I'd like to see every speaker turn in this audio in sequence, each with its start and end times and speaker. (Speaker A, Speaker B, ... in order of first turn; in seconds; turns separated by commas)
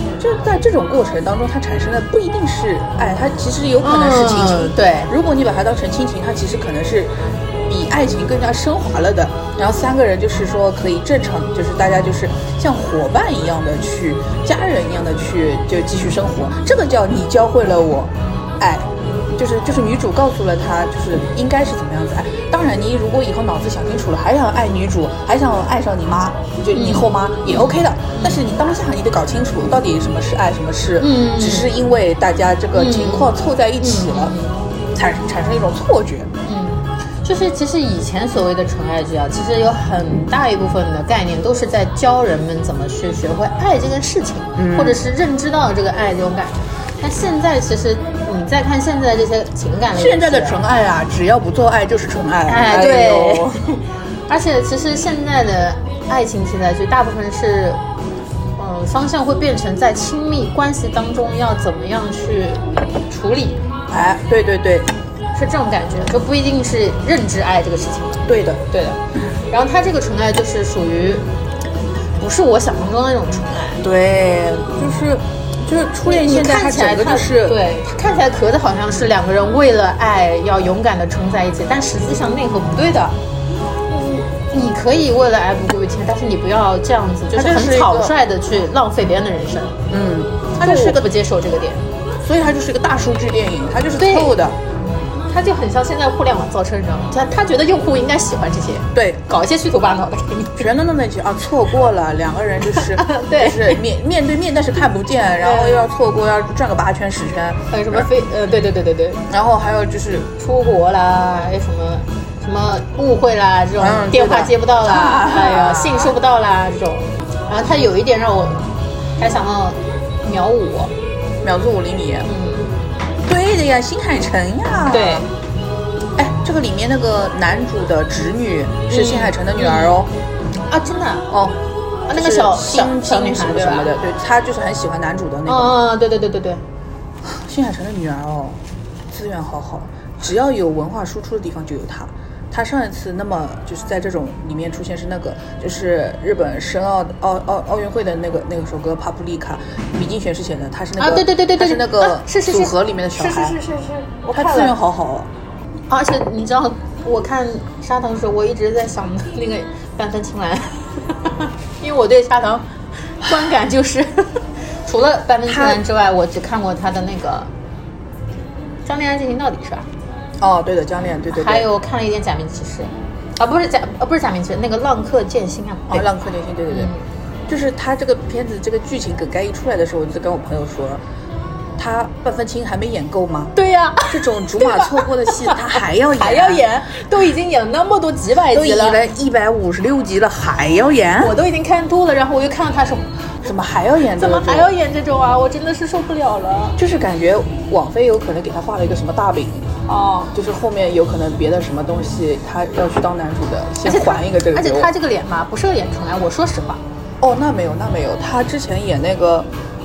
Speaker A: 0.2-34.4, Speaker B: 3.8-5.1, Speaker B: 26.7-28.4, Speaker B: 31.0-31.7, Speaker B: 32.7-34.6, Speaker A: 34.9-36.3, Speaker B: 36.5-50.6, Speaker A: 44.6-45.0, Speaker A: 50.0-53.6, Speaker B: 52.5-57.8, Speaker B: 58.6-63.6, Speaker A: 63.9-64.9, Speaker B: 65.3-71.3, Speaker A: 68.3-68.6, Speaker B: 72.2-73.8, Speaker A: 73.8-77.6, Speaker B: 76.0-83.2, Speaker B: 83.9-89.8, Speaker A: 87.3-88.1, Speaker A: 89.9-91.1, Speaker B: 90.6-91.8, Speaker A: 92.2-94.6, Speaker B: 94.0-94.4, Speaker B: 95.3-100.7, Speaker A: 98.9-99.2, Speaker A: 100.6-108.1, Speaker B: 102.7-103.8, Speaker B: 105.4-105.9, Speaker B: 107.7-109.2, Speaker A: 109.3-110.3, Speaker B: 110.4-120.9, Speaker A: 113.8-116.2, Speaker A: 121.4-122.3, Speaker B: 122.3-122.7, Speaker A: 123.3-125.3, Speaker B: 124.9-125.3, Speaker A: 126.2-130.1, Speaker B: 128.9-130.0, Speaker B: 130.7-131.3, Speaker A: 131.3-131.6, Speaker B: 132.1-133.9, Speaker A: 132.1-135.8, Speaker B: 135.5-136.6, Speaker A: 137.2-153.6, Speaker B: 151.0-154.8, Speaker A: 154.3-155.3, Speaker B: 155.9-167.5, Speaker A: 165.5-165.8, Speaker B: 168.8-169.9, Speaker A: 170.4-171.7, Speaker B: 171.3-176.1, Speaker A: 175.9-176.9, Speaker B: 176.7-177.0, Speaker A: 177.5-181.0, Speaker A: 181.8-183.6, Speaker B: 183.6-189.0, Speaker A: 184.1-186.7, Speaker A: 188.5-191.3, Speaker B: 191.2-193.1, Speaker A: 193.4-194.7, Speaker B: 194.2-196.8, Speaker A: 196.8-199.7, Speaker B: 199.9-200.3, Speaker A: 200.3-204.9, Speaker B: 203.8-206.8, Speaker A: 207.2-209.5